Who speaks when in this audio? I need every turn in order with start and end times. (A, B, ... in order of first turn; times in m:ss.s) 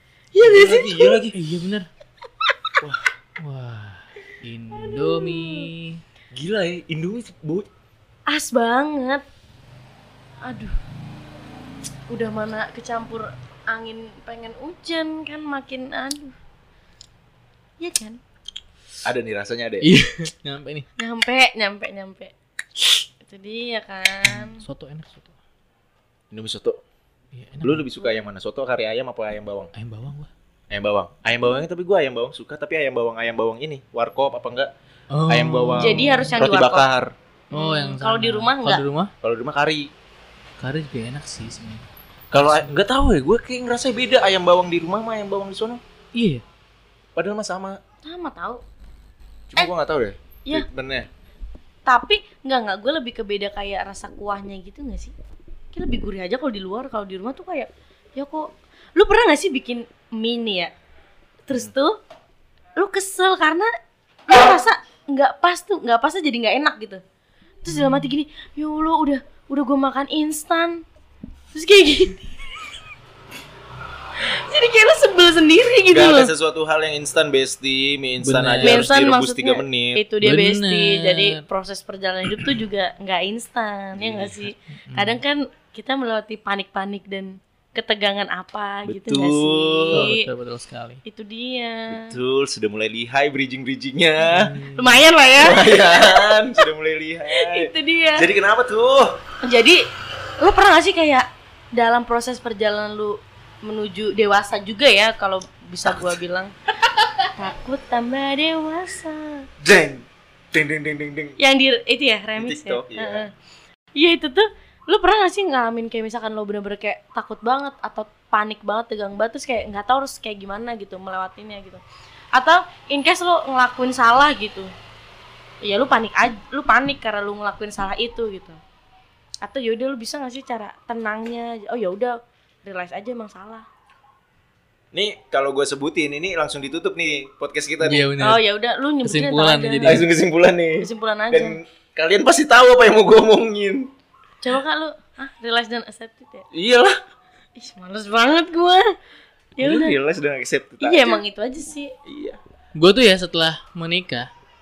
0:00.3-0:01.2 A
0:00.4-0:01.3 B
0:01.3-0:01.9 C
0:02.8-0:03.1 B
0:03.4-0:06.0 C
0:04.8-0:05.7 A
0:06.3-0:07.7 B
0:08.3-0:09.2 A
0:10.4-0:10.8 A
0:12.1-0:16.3 A
0:17.8-0:18.2 A
0:19.0-0:19.9 B
0:19.8-0:20.8 C
0:21.0-0:22.3 A
0:23.2-0:24.6 A
0:24.3-0:25.3 C
0:26.3-0:26.8 B
0:27.3-0:27.8 C
0:27.6-0:29.7 B
0:29.7-0:30.3 C
0:30.7-0:34.7 B
0:35.1-0:36.3 C
0:35.3-0:37.1 B
0:35.8-0:36.9 A
0:37.5-0:38.8 A
0:37.5-0:39.1 C
0:39.2-0:39.9 B
0:40.6-0:41.8 C
0:42.3-0:45.8 B
0:42.4-0:42.8 C
0:46.1-0:46.4 C
0:47.2-0:47.8 B
0:48.0-0:48.6 A
0:49.5-0:51.1 B
0:51.8-0:55.1 A
0:55.7-1:00.7 A
1:01.5-1:01.9 A
1:02.8-1:03.7 A
1:04.3-1:07.0 A
1:07.6-1:10.8 A
1:07.7-1:08.1 C
1:11.5-1:12.3 A
1:14.2-1:16.3 A
1:15.9-1:20.0 B
1:18.2-1:18.9 C
1:18.6-1:30.2 A
1:20.2-1:21.4 C
1:23.9-1:24.5 B
1:24.8-1:25.2 C
1:28.8-1:30.1 B
1:29.9-1:31.0 C
1:31.0-1:32.0 A
1:31.9-1:34.5 B
1:34.2-1:35.0 C
1:34.6-1:36.7 A
1:35.4-1:39.1 B
1:37.3-1:38.3 A
1:39.4-1:39.8 A
1:40.4-1:46.5 A
1:47.4-1:49.4 A
1:49.6-1:51.3 B
1:51.4-1:53.3 A
1:52.4-1:53.3 B
1:54.0-2:01.8 A
2:02.3-2:04.7 A
2:05.6-2:08.6 A
2:09.4-2:13.6 A
2:14.9-2:18.1 B
2:17.8-2:18.4 C
2:18.2-2:20.0 A
2:19.0-2:20.1 C
2:19.8-2:23.9 B
2:20.8-2:21.6 A
2:24.4-2:26.4 A
2:26.5-2:27.0 B
2:27.6-2:28.8 A
2:29.6-2:30.0 A
2:29.6-2:31.2 B
2:30.8-2:31.9 A
2:32.0-2:32.4 B
2:32.8-2:34.3 C